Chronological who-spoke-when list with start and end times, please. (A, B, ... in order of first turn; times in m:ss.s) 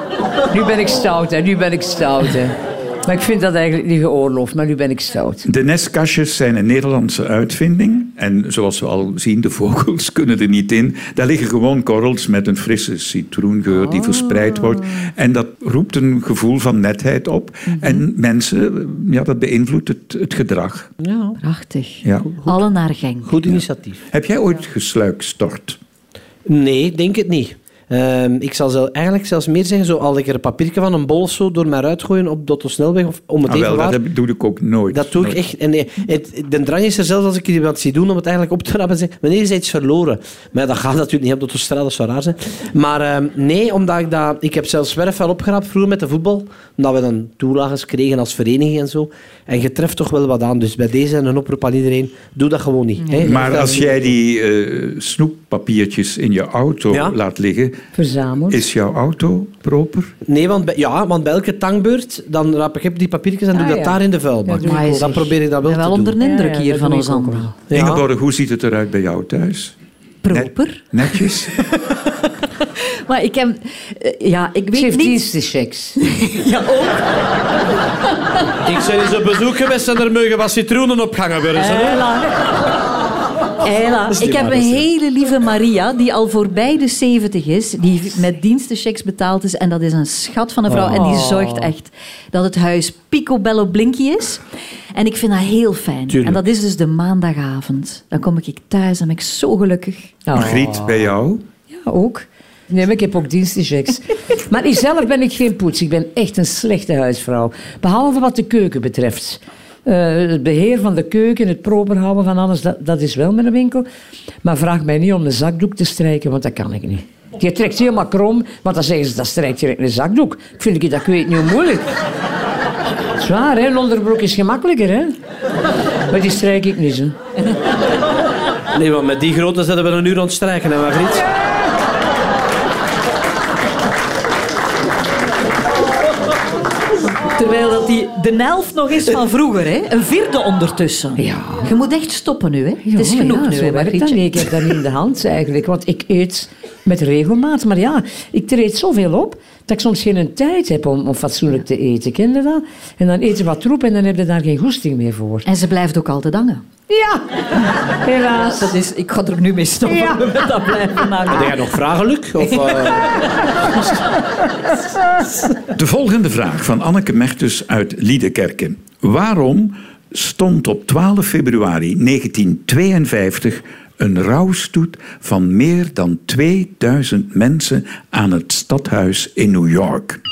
0:00.5-0:05.5 A
0:05.4-0:20.9 B
0:17.8-0:18.0 C
0:21.0-0:21.4 D
0:21.4-0:23.4 C
0:22.0-0:22.3 B
0:23.2-0:24.0 D
0:23.5-0:25.8 B
0:26.5-0:34.0 D
0:33.5-0:35.4 B
0:34.9-0:54.0 D
0:53.1-0:53.6 A
0:53.2-0:57.8 B
0:57.9-0:58.6 A
0:58.5-1:00.1 B
1:00.2-1:06.2 D
1:03.5-1:05.3 A
1:04.6-1:07.5 C
1:06.2-1:07.5 A
1:07.7-1:08.0 D
1:07.7-1:09.8 B
1:10.2-1:11.3 C
1:10.3-1:11.5 B
1:12.8-1:15.2 C
1:14.7-1:16.0 A
1:16.0-1:17.0 C
1:18.6-1:22.0 D
1:21.5-1:22.3 C
1:23.6-1:34.4 C
1:24.1-1:24.9 D
1:30.7-1:31.0 D
1:30.9-1:31.7 A
1:34.9-1:40.2 C
1:36.1-1:36.4 D
1:40.2-1:41.0 A
1:40.3-1:41.4 B
1:41.7-1:53.9 A
1:54.4-2:01.9 A
2:03.2-2:05.2 A
2:06.1-2:07.1 A
2:08.7-2:11.2 D
2:17.0-2:24.5 C
2:21.2-2:21.7 A
2:22.8-2:35.5 A
2:35.5-2:36.6 C
2:36.9-2:37.2 A
2:37.9-2:38.7 A
2:38.4-2:41.6 C
2:39.9-2:40.5 A
2:41.3-2:43.9 D
2:45.7-3:00.2 B